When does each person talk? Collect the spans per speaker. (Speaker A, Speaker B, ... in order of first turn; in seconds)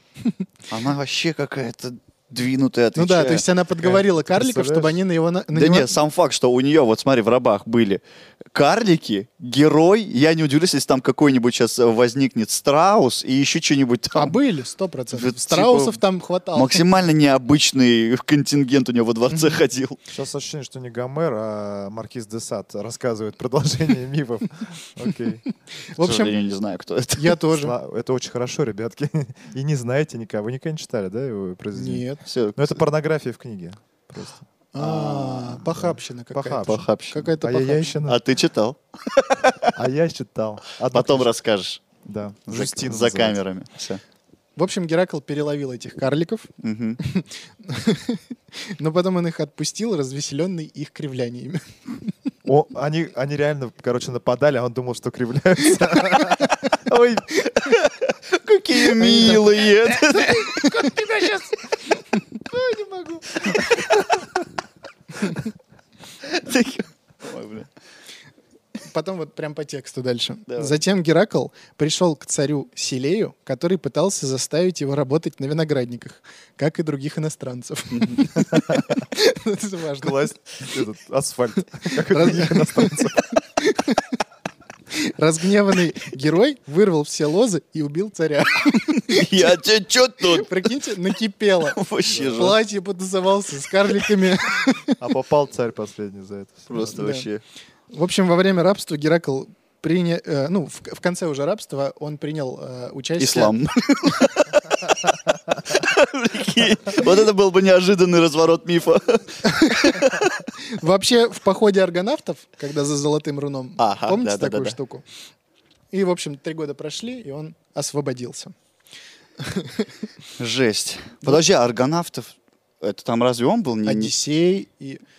Speaker A: 0.7-3.4, 5.5-8.0, 8.5-14.3, 15.1-16.0, 16.5-20.0, 26.0-27.4, 32.2-32.8, 34.8-35.6, 36.6-37.2, 38.0-39.7, 40.9-41.8, 42.5-44.0, 46.6-47.0, 57.5-61.5, 63.3-64.1, 66.2-67.7, 70.5-70.7, 77.9-78.2, 89.1-90.7, 91.7-92.6, 96.7-97.4, 103.2-104.5, 105.7-110.4, 113.8-114.8, 120.4-124.1
Speaker B: 2.9-5.9, 14.2-16.8, 19.3-19.6, 25.9-26.4, 27.1-27.8, 31.7-32.2, 34.7-38.0, 44.5-52.1, 56.0-56.3, 58.8-61.4, 62.5-63.2, 68.8-80.3, 81.8-84.2, 84.9-89.5, 90.3-95.0, 96.8-97.3, 97.9-103.5, 109.4-115.0, 115.9-118.5, 119.4-119.9, 123.8-125.0
Speaker C: 3.8-5.0, 20.1-25.4, 27.6-34.4, 35.8-38.2, 39.7-41.3, 42.0-43.4, 52.4-57.2, 80.0-83.2, 92.1-92.5, 95.0-96.7